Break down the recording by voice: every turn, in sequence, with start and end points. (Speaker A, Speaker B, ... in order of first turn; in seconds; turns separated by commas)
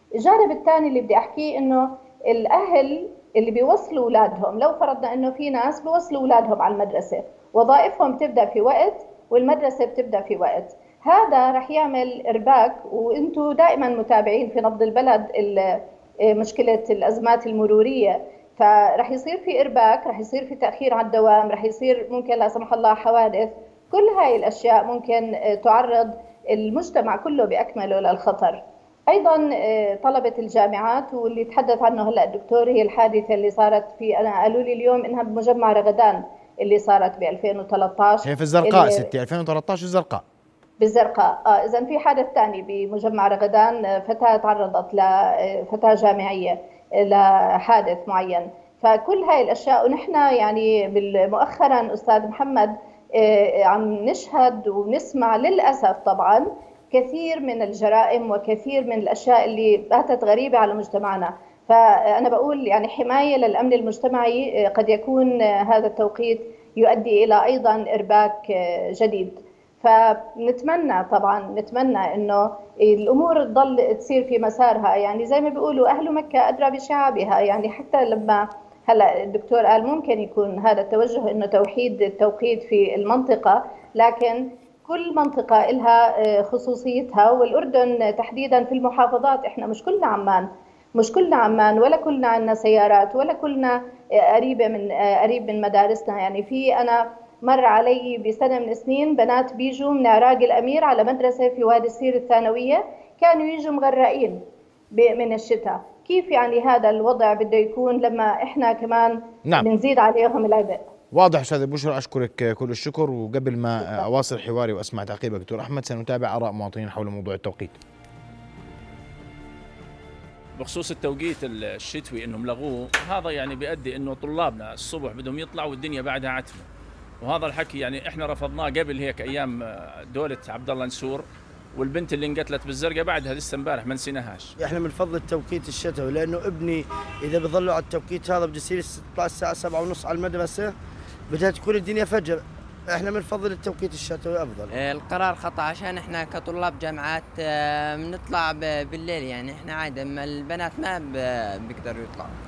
Speaker A: 0.2-39.1, Speaker B: 38.2-40.2, Speaker A: 40.8-90.5, Speaker A: 91.0-104.4, Speaker A: 104.9-110.9, Speaker B: 111.1-117.8, Speaker C: 120.6-126.7, Speaker C: 127.2-134.5, Speaker D: 134.6-140.8, Speaker D: 141.3-144.7, Speaker E: 144.7-152.3